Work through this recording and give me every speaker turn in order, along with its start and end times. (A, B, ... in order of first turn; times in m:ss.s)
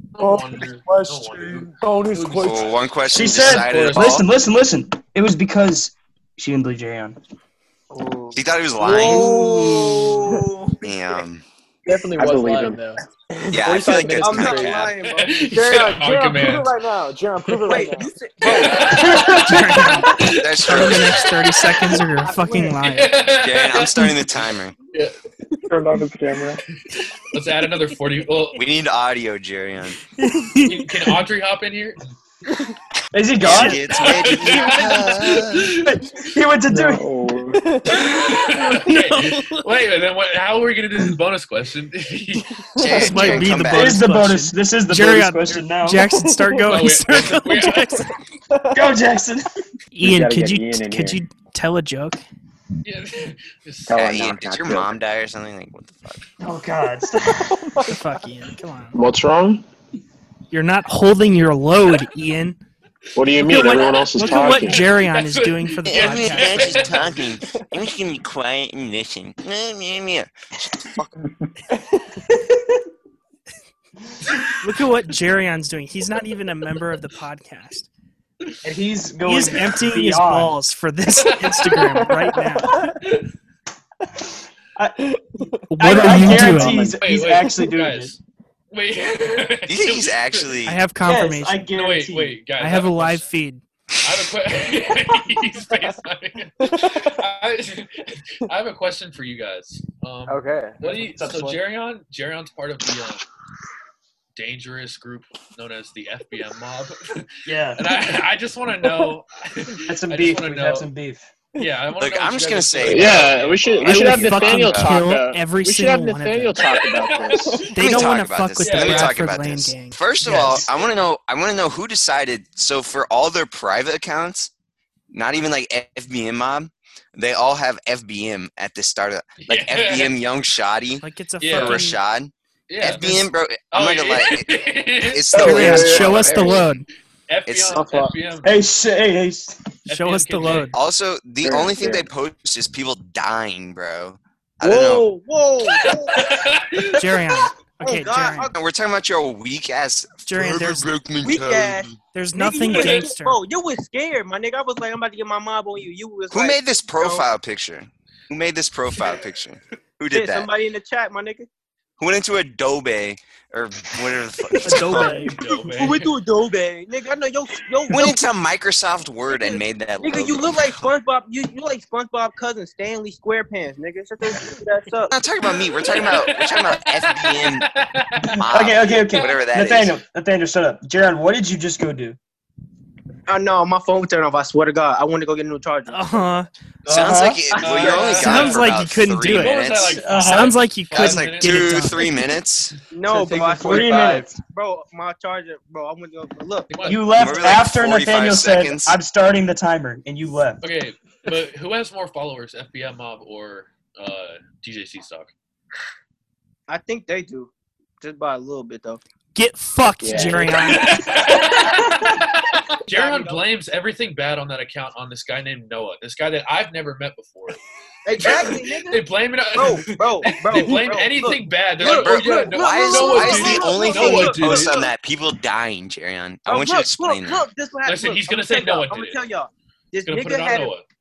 0:00.2-0:04.2 A
0:00.2-0:02.7 B
0:02.4-0:04.3 C
0:03.1-0:07.2 D
0:07.9-0:08.4 B
0:08.3-0:09.3 C
0:08.8-0:10.8 E
0:09.0-0:10.4 B
0:10.8-0:11.4 C
0:11.8-0:14.9 F
0:12.2-0:12.9 G
0:13.4-0:13.9 B
0:13.5-0:14.9 C
0:13.8-0:16.5 E
0:15.0-0:16.7 A
0:15.8-0:18.1 B
0:17.7-0:19.0 E
0:18.4-0:19.5 A
0:18.9-0:20.1 D
0:19.0-0:23.2 H
0:20.2-0:21.4 C
0:20.6-0:21.8 A
0:22.3-0:22.7 E
0:22.8-0:25.2 A
0:23.2-0:24.7 C
0:25.7-0:26.6 G
0:26.9-0:28.6 A
0:28.6-0:30.0 C
0:30.4-0:30.8 H
0:30.7-0:32.1 A
0:33.1-0:33.9 D
0:33.4-0:35.8 C
0:33.9-0:36.2 A
0:35.8-0:37.0 D
0:36.7-0:37.8 G
0:37.5-0:38.2 B
0:37.9-0:42.5 A
0:42.8-0:44.1 C
0:42.8-0:43.1 B
0:42.8-0:48.1 H
0:43.7-0:46.3 D
0:46.3-0:46.6 B
0:46.6-0:48.1 A
0:48.5-0:48.9 B
0:48.7-0:49.5 D
0:49.9-0:52.2 H
0:50.0-0:51.2 G
0:52.8-0:54.1 A
0:53.9-0:55.0 G
0:53.9-0:56.3 C
0:56.4-0:57.7 D
0:57.6-0:58.0 B
0:57.8-0:59.0 H
0:58.9-0:59.6 I
1:00.5-1:02.6 H
1:03.2-1:04.9 I
1:03.3-1:07.0 H
1:04.2-1:07.3 A
1:05.8-1:11.1 C
1:11.9-1:12.5 B
1:14.6-1:17.9 H
1:18.6-1:20.6 D
1:19.2-1:22.8 H
1:21.1-1:22.2 A
1:24.8-1:28.2 D
1:25.7-1:26.9 H
1:25.9-1:26.9 B
1:26.8-1:28.2 A
1:28.7-1:30.6 A
1:29.7-1:30.8 C
1:30.6-1:31.7 H
1:31.0-1:32.5 D
1:31.7-1:33.3 A
1:32.5-1:33.6 H
1:34.0-1:43.2 A
1:36.6-1:37.2 B
1:40.3-1:41.0 B
1:40.9-1:41.6 D
1:44.4-1:50.9 A
1:47.5-1:47.9 D
1:49.9-1:51.3 D
1:51.6-1:54.1 A
1:52.0-1:55.0 C
1:52.8-1:57.6 I
1:53.8-1:56.7 H
1:56.6-1:57.8 A
1:57.7-2:00.0 H
1:57.8-2:04.5 C
1:58.6-1:59.2 A
2:00.2-2:00.7 A
2:05.1-2:16.6 C
2:09.4-2:10.2 A
2:11.0-2:12.0 H
2:11.4-2:11.9 A
2:12.7-2:16.7 A
2:15.3-2:16.9 H
2:17.3-2:18.6 A
2:17.5-2:17.8 C
2:17.7-2:18.1 E
2:18.4-2:19.7 D
2:19.9-2:20.7 A
2:19.9-2:20.8 H
2:20.7-2:25.1 C
2:21.4-2:22.1 G
2:24.6-2:26.3 E
2:26.1-2:27.3 A
2:27.0-2:28.5 H
2:27.8-2:28.5 E
2:28.5-2:32.0 C
2:30.3-2:31.0 H
2:31.2-2:37.3 E
2:32.1-2:33.4 H
2:32.7-2:33.1 A
2:36.3-2:40.5 C
2:40.1-2:41.5 E
2:42.0-2:45.3 C
2:44.6-2:45.4 H
2:44.7-2:46.1 A
2:45.7-2:48.2 E
2:47.9-2:50.9 C
2:50.0-2:55.1 E
2:55.1-2:57.7 C
2:55.4-2:59.4 A
2:58.2-3:00.0 C
2:58.5-3:02.2 D
3:03.3-3:06.4 E
3:05.9-3:06.5 H
3:06.9-3:12.8 C
3:06.9-3:07.5 D
3:07.5-3:12.0 A
3:07.7-3:08.3 E
3:07.8-3:12.2 H
3:12.9-3:16.9 E
3:13.1-3:14.4 F
3:13.6-3:14.3 D
3:16.7-3:17.1 A
3:16.9-3:20.6 D
3:17.2-3:19.0 C
3:20.6-3:25.3 A
3:26.7-3:29.0 E
3:29.4-3:31.1 H
3:30.0-3:30.5 G
3:30.3-3:37.6 A
3:32.9-3:33.4 E
3:38.0-3:44.9 E
3:38.2-3:44.7 A
3:41.8-3:47.4 C
3:46.5-3:50.7 E
3:47.9-3:49.2 A
3:50.1-3:50.8 A